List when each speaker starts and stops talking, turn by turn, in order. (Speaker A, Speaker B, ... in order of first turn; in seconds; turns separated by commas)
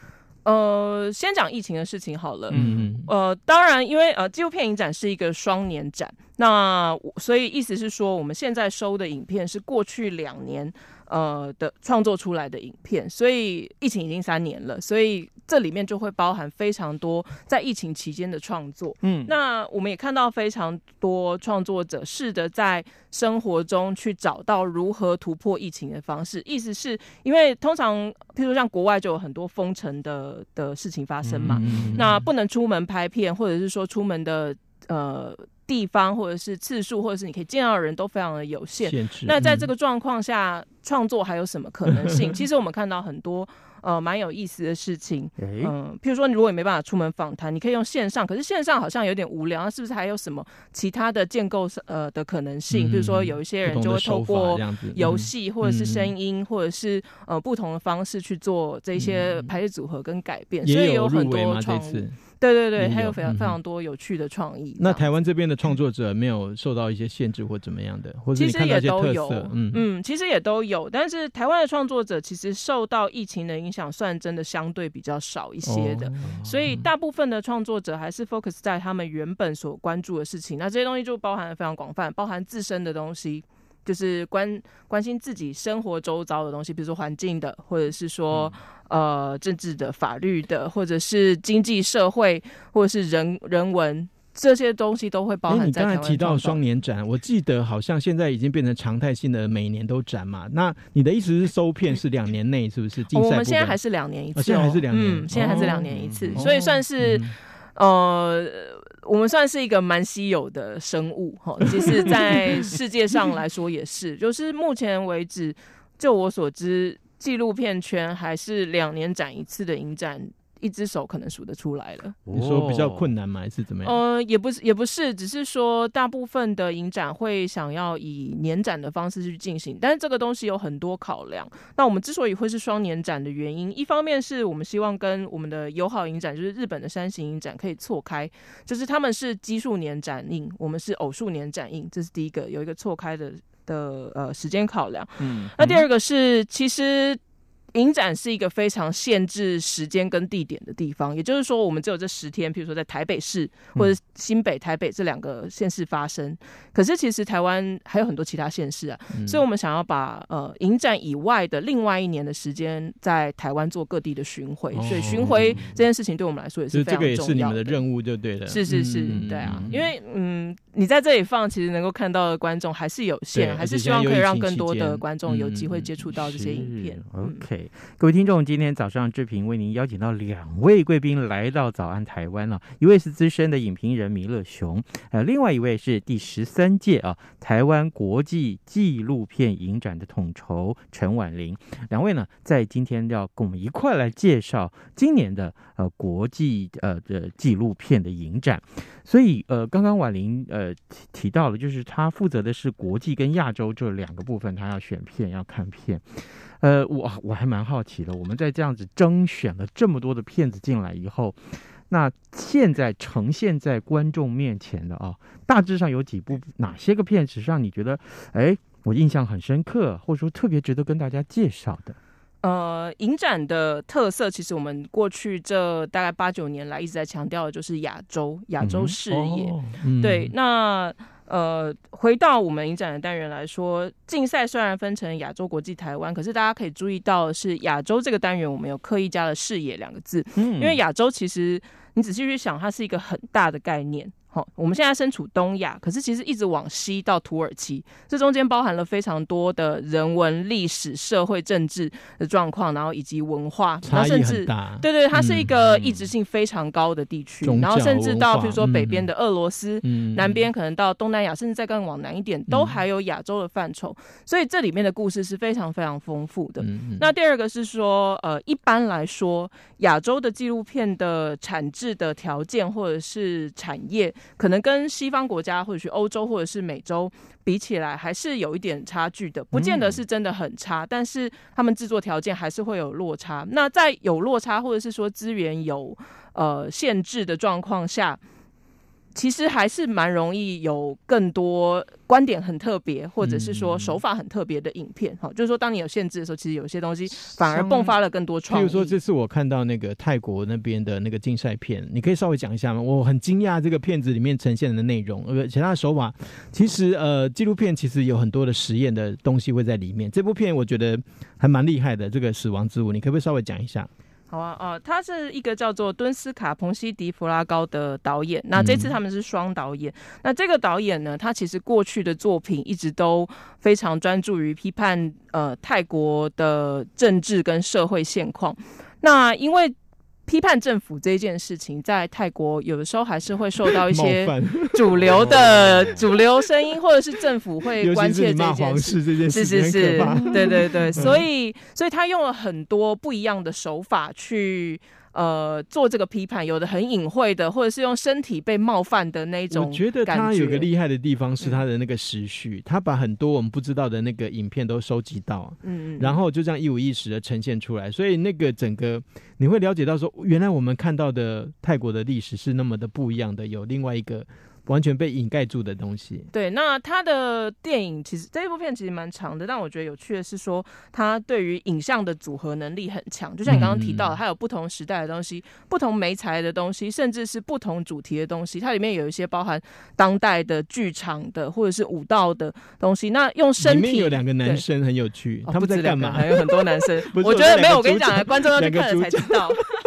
Speaker A: 0.4-65.0, Speaker B: 2.5-2.9, Speaker C: 2.5-3.1, Speaker B: 19.0-19.3, Speaker B: 31.2-32.0, Speaker C: 31.4-32.2, Speaker C: 38.8-39.5, Speaker B: 45.4-45.7, Speaker C: 52.7-56.1, Speaker C: 59.0-59.5, Speaker C: 60.6-62.1, Speaker C: 62.8-63.6, Speaker C: 64.8-69.8, Speaker A: 68.3-96.6, Speaker C: 75.6-76.4, Speaker B: 76.3-76.8, Speaker C: 95.5-103.8, Speaker A: 103.1-122.2, Speaker C: 104.3-107.3, Speaker B: 105.3-106.5, Speaker C: 111.8-112.1, Speaker B: 122.3-123.1, Speaker C: 122.3-124.0, Speaker A: 123.8-147.2, Speaker B: 145.2-145.9, Speaker A: 147.7-167.8, Speaker C: 159.1-159.4, Speaker C: 164.7-165.7, Speaker B: 164.9-165.8, Speaker C: 166.7-169.8, Speaker A: 168.4-177.4, Speaker B: 169.1-169.8, Speaker C: 173.3-175.8, Speaker B: 176.2-222.0, Speaker A: 222.4-288.2, Speaker B: 228.6-228.9, Speaker C: 229.1-230.3, Speaker B: 240.4-240.8, Speaker C: 253.8-255.5, Speaker B: 255.6-256.1, Speaker C: 257.4-259.1, Speaker C: 259.8-260.3, Speaker C: 266.6-267.1, Speaker B: 279.5-280.0, Speaker A: 289.1-298.9, Speaker C: 293.2-293.9, Speaker C: 297.5-297.9, Speaker C: 298.5-313.9, Speaker A: 314.3-329.7, Speaker C: 318.6-318.9, Speaker A: 330.2-350.7, Speaker C: 333.7-335.9, Speaker B: 335.0-336.0, Speaker C: 337.8-341.2, Speaker B: 340.1-340.6, Speaker C: 349.5-366.3, Speaker A: 355.6-356.2, Speaker A: 366.3-384.6, Speaker C: 373.5-374.1, Speaker C: 383.6-389.7, Speaker A: 385.5-389.6